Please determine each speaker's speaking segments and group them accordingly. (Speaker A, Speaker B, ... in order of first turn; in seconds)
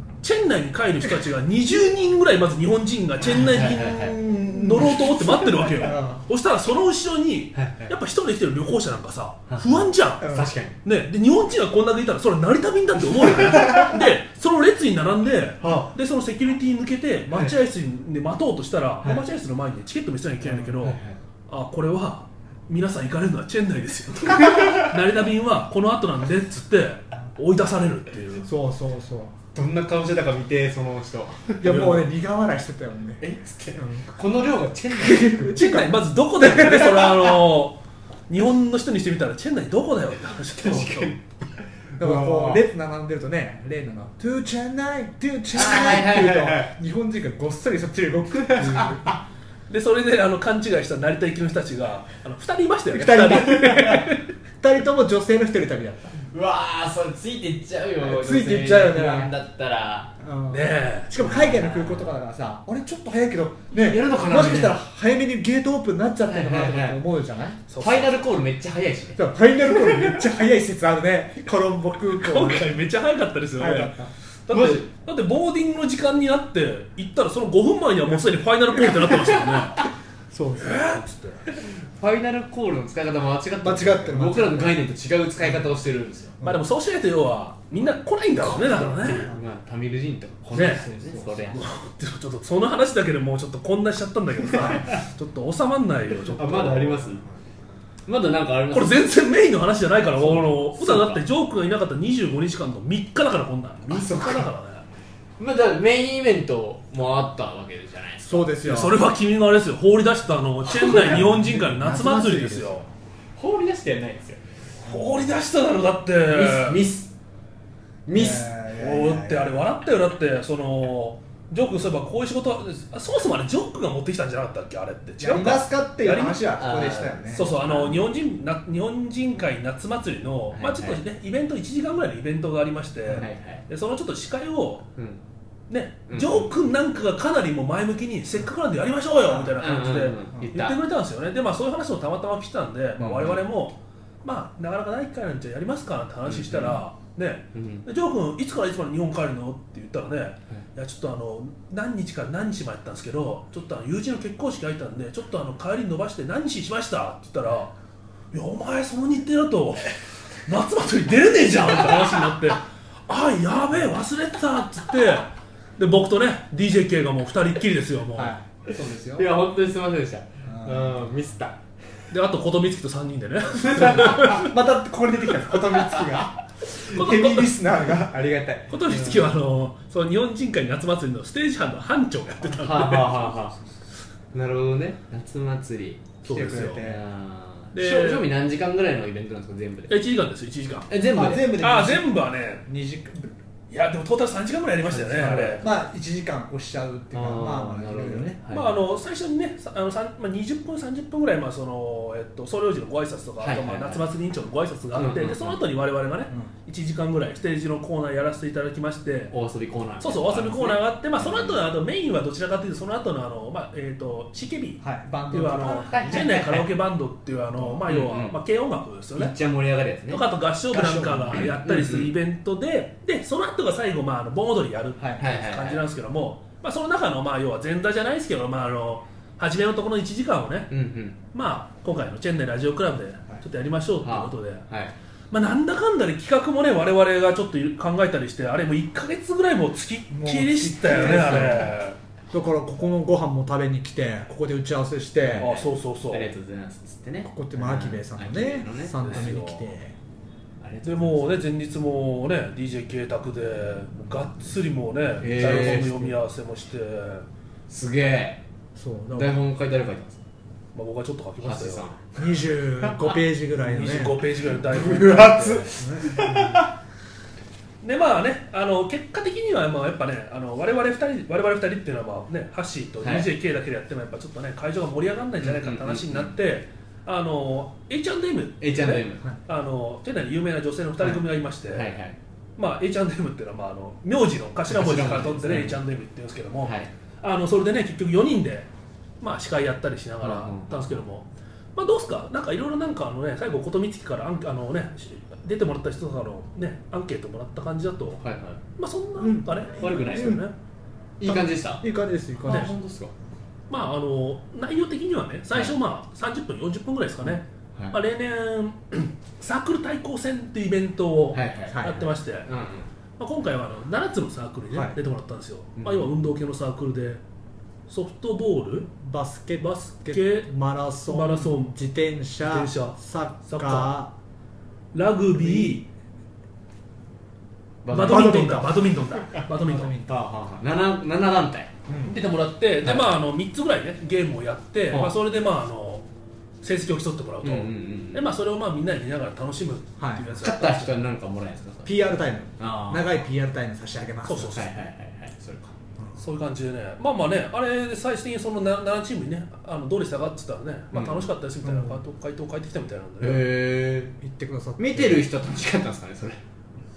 Speaker A: 0.2-28.5, 35.0-41.2, 49.7-54.2, 60.5-61.1, 67.7-68.2, 72.1-79.8, 80.6-81.4, 86.4-89.3, 90.5-90.9, 91.5-97.1, 98.7-104.8, 108.6-112.8, 114.8-116.8, 118.7-126.6, 127.3-134.9, 135.7-157.7, 158.3-168.3, 172.1-174.6, 176.8-177.6, 178.7-183.3, 186.2-186.9, 187.7-188.3, 189.9-190.9, 191.4-192.6, 193.7-195.6, 198.5-209.3, 210.0-219.3, 220.1-230.7, 231.3-234.6, 235.3-242.0, 245.4-246.3, 249.0-249.7, 250.8-257.2, 260.8-261.9, 263.6-265.7, 267.8-281.9, 282.6-288.7, 289.2-298.2, 298.8-300.5, 302.5-302.7, 303.7-312.5, 313.2-317.2, 317.9-318.9, 319.6-320.5, 321.1-321.8, 322.4-323.0, 323.5-323.9, 324.9-325.9, 327.9-329.9, 332.1-336.0, 336.6-341.0, 344.2-344.9, 346.2-353.5
Speaker B: 3.3-4.2, 7.5-7.9, 9.5-9.8, 10.3-10.8, 20.8-21.2, 24.6-24.9, 29.5-32.1, 33.2-35.4, 40.6-42.6, 45.5-46.8, 48.5-49.2, 56.3-60.1, 61.2-62.1, 63.8-64.8, 66.3-67.0, 67.8-69.2, 74.5-74.9, 81.6-86.4, 88.4-91.7, 94.6-94.9, 96.4-97.2, 98.1-99.0, 100.1-101.2, 103.9-104.5, 105.4-108.5, 113.4-114.4, 116.3-117.1, 118.1-118.5, 126.6-128.0, 130.5-131.0, 133.1-133.6, 135.0-135.2, 136.1-136.5, 139.6-140.8, 143.0-143.4, 146.2-146.8, 147.5-147.8, 169.1-171.6, 173.6-174.4, 182.6-183.6, 184.3-186.1, 186.8-190.0, 190.9-191.6, 194.9-195.7, 197.1-198.8, 203.4-204.1, 204.9-205.6, 209.3-211.6, 215.5-216.7, 217.9-218.4, 219.2-220.2, 221.3-222.1, 225.2-225.8, 230.7-231.2, 234.0-234.9, 241.0-241.6, 245.2-249.3, 250.6-251.4, 255.2-256.1, 257.7-258.4, 259.1-260.2, 261.4-262.1, 262.8-263.1, 264.5-266.7, 273.0-273.3, 275.4-276.3, 278.6-279.2, 281.0-282.2, 284.7-285.8, 286.6-286.9, 290.2-290.9, 298.2-298.6, 299.8-300.3, 301.2-301.8, 302.4-303.1, 307.2-308.0, 311.3-312.9, 315.8-316.1, 327.8-328.5, 330.2-331.7, 332.8-333.1, 337.4-338.3, 340.4-343.2, 344.5-345.8, 350.9-351.3, 353.2-354.1, 354.8-356.4
Speaker C: 4.5-5.0, 5.6-6.2, 10.2-10.5, 15.6-15.9, 20.4-20.8, 28.4-29.4, 31.6-33.2, 33.8-34.1, 35.0-37.4, 42.0-49.2, 52.9-56.2, 58.0-59.3, 60.2-67.6, 69.2-72.8, 73.6-74.1, 80.3-81.0, 83.6-84.9, 86.4-86.6, 88.5-89.4, 90.5-91.6, 108.2-109.0, 110.8-112.9, 118.1-119.6, 125.2-127.5, 139.3-139.6, 168.1-169.3, 170.4-171.1, 173.7-179.1, 186.2-187.0, 191.1-193.3, 195.6-198.4, 214.8-216.2, 220.7-221.5, 240.1-241.8, 242.3-245.5, 247.3-249.9, 255.3-256.0, 258.8-259.4, 262.2-264.2, 265.7-266.7, 299.2-300.4, 301.2-302.7, 311.7-312.1, 314.7-315.0, 318.9-324.1, 325.5-325.8, 327.9-328.9, 329.5-330.4, 331.9-332.2, 340.0-340.4, 341.9-344.6, 351.6-352.0, 354.2-355.3